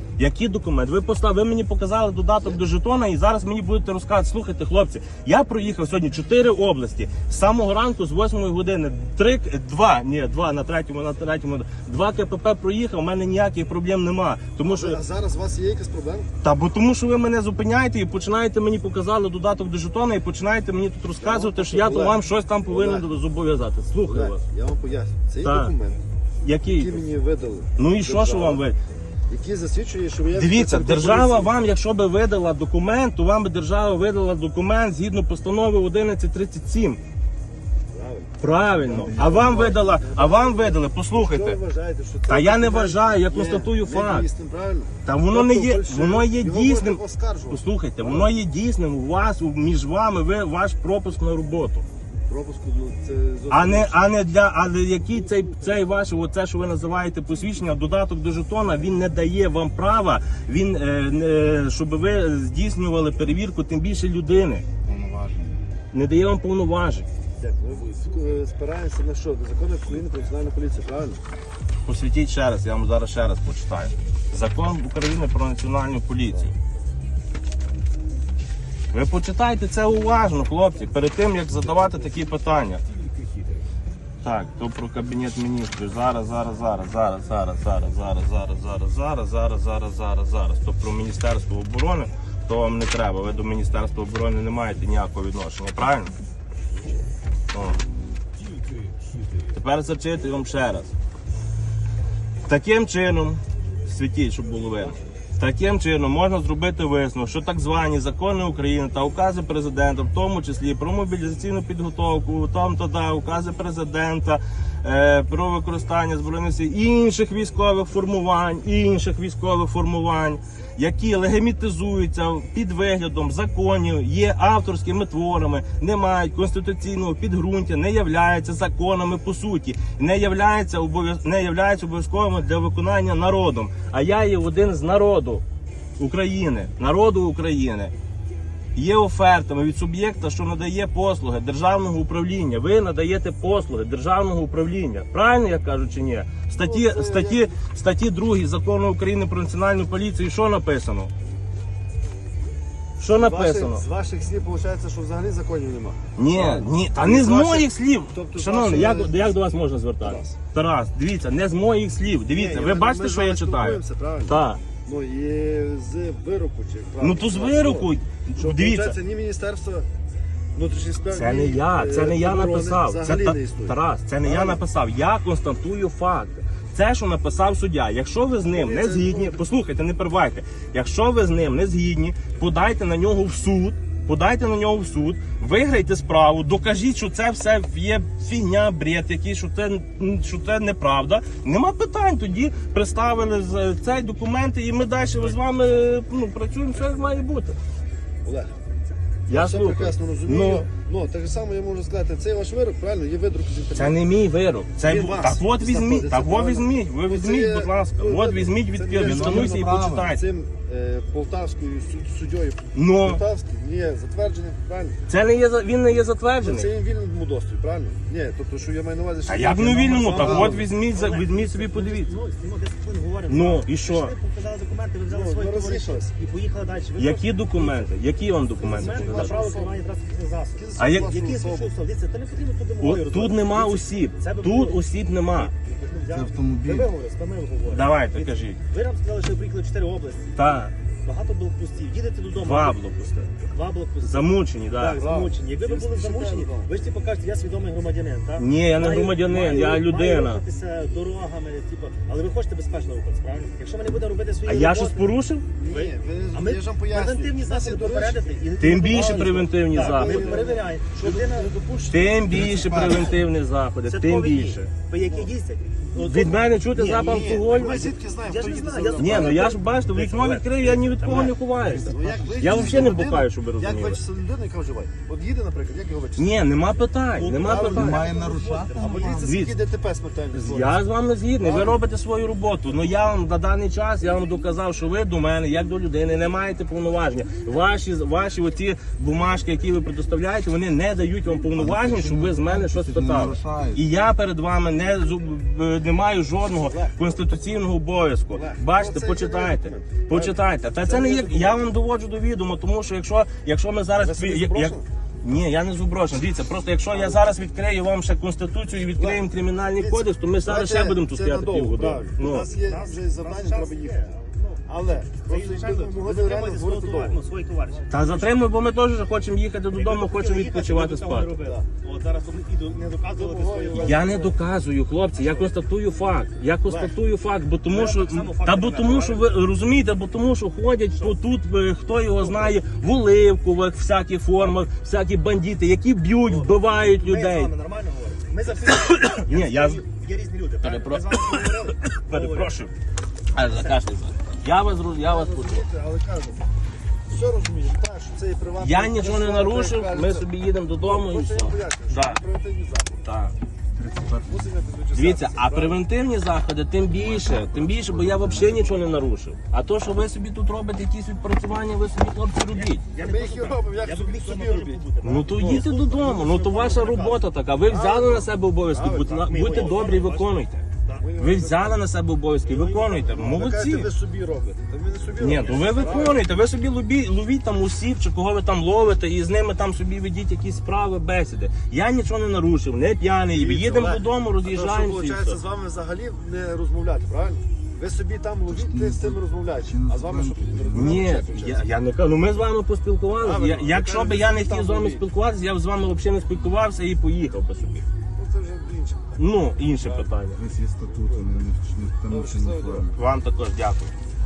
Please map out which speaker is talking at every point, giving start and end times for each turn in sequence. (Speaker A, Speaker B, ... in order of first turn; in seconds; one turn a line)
Speaker A: 0.2-15.0
Speaker B: 14.6-16.3
Speaker A: 16.4-24.4
Speaker B: 21.2-23.1
Speaker B: 24.1-26.0
Speaker A: 25.4-25.7
Speaker A: 26.4-27.0
Speaker B: 26.6-28.7
Speaker A: 27.8-28.8
Speaker B: 29.3-31.5
Speaker A: 30.3-37.0
Speaker B: 37.9-48.3
Speaker A: 38.4-41.6
Speaker C: 38.9-39.7
Speaker A: 42.3-44.3
Speaker A: 45.0-51.8
Speaker B: 52.3-54.1
Speaker A: 53.5-64.7
Speaker C: 64.8-65.7
Speaker A: 65.9-67.1
Speaker B: 67.4-71.2
Speaker A: 71.8-76.5
Speaker A: 78.9-82.8
Speaker A: 84.2-96.1
Speaker B: 96.7-97.0
Speaker A: 97.5-97.8
Speaker A: 99.5-100.9
Speaker A: 102.4-135.4
Speaker A: 136.0-137.9
Speaker A: 138.8-151.1
Speaker B: 146.6-147.5
Speaker A: 153.0-153.8
Speaker B: 153.1-159.3
Speaker A: 156.2-164.6
Speaker B: 160.0-160.4
Speaker B: 162.3-169.9
Speaker A: 167.0-168.9
Speaker B: 170.5-174.6
Speaker A: 171.1-197.6
Speaker B: 178.4-179.4
Speaker B: 198.2-198.5
Speaker A: 199.3-200.7
Speaker B: 199.3-204.0
Speaker A: 203.7-210.2
Speaker B: 204.8-215.0
Speaker C: 209.0-210.1
Speaker A: 212.7-213.2
Speaker A: 215.1-216.7
Speaker B: 216.4-220.7
Speaker A: 219.3-222.1
Speaker D: 219.9-227.9
Speaker A: 223.3-224.1
Speaker B: 225.1-226.1
Speaker A: 227.0-229.4
Speaker B: 228.6-229.8
Speaker D: 228.6-240.4
Speaker B: 230.5-231.7
Speaker A: 230.8-231.2
Speaker A: 232.8-235.5
Speaker C: 236.1-236.9
Speaker A: 237.6-238.6
Speaker A: 240.4-240.7
Speaker D: 241.0-242.8
Speaker A: 242.4-243.4
Speaker D: 243.4-255.1
Speaker A: 244.0-245.0
Speaker B: 244.9-246.7
Speaker A: 248.4-250.4
Speaker A: 254.5-255.4
Speaker B: 255.5-262.5
Speaker D: 255.7-261.5
Speaker A: 258.6-260.4
Speaker A: 261.9-264.7
Speaker C: 262.3-263.1
Speaker D: 263.9-271.4
Speaker B: 265.1-265.3
Speaker A: 265.9-268.0
Speaker B: 266.9-269.6
Speaker A: 269.0-274.0
Speaker B: 271.0-271.4
Speaker C: 271.6-273.1
Speaker B: 271.9-276.3
Speaker A: 276.1-278.0
Speaker D: 277.1-279.1
Speaker B: 277.4-278.2
Speaker C: 277.5-279.4
Speaker B: 278.7-280.8
Speaker A: 279.2-279.6
Speaker A: 280.3-312.5
Speaker B: 281.4-281.8
Speaker C: 291.6-293.8
Speaker B: 296.6-297.0
Speaker B: 298.3-301.6
Speaker B: 304.0-304.9
Speaker B: 306.9-307.3
Speaker B: 308.8-309.2
Speaker B: 309.8-314.1
Speaker D: 312.5-318.3
Speaker B: 314.7-317.2
Speaker A: 317.9-321.4
Speaker D: 319.7-324.4
Speaker B: 323.1-324.3
Speaker A: 323.8-337.5
Speaker D: 325.1-325.5
Speaker D: 326.6-327.0
Speaker D: 327.7-329.4
Speaker D: 332.2-332.6
Speaker D: 336.2-341.0
Speaker A: 338.6-339.8
Speaker A: 340.6-342.7
Speaker B: 340.8-341.8
Speaker D: 342.1-342.5
Speaker A: 343.3-345.6
Speaker D: 343.4-343.8
Speaker B: 345.0-346.4
Speaker B: 347.1-350.3
Speaker A: 348.6-352.2
Speaker B: 350.8-353.0
Speaker A: 353.0-353.4
Speaker C: 353.8-354.3
Speaker B: 354.2-355.8
Speaker A: 354.9-362.8
Speaker C: 356.9-358.5
Speaker B: 357.9-359.0
Speaker D: 362.5-366.4
Speaker B: 363.0-370.0
Speaker A: 365.0-370.6
Speaker D: 369.1-371.1
Speaker B: 371.0-371.8
Speaker A: 371.2-373.9
Speaker D: 372.4-373.1
Speaker B: 372.9-376.2
Speaker A: 375.2-385.4
Speaker D: 375.2-376.2
Speaker B: 383.3-391.7
Speaker C: 388.5-391.1
Speaker A: 390.7-397.9
Speaker B: 393.2-395.0
Speaker B: 398.1-399.1
Speaker A: 399.2-400.4
Speaker B: 399.8-400.1
Speaker C: 400.4-403.0
Speaker B: 400.9-401.4
Speaker B: 402.1-402.9
Speaker A: 402.9-403.9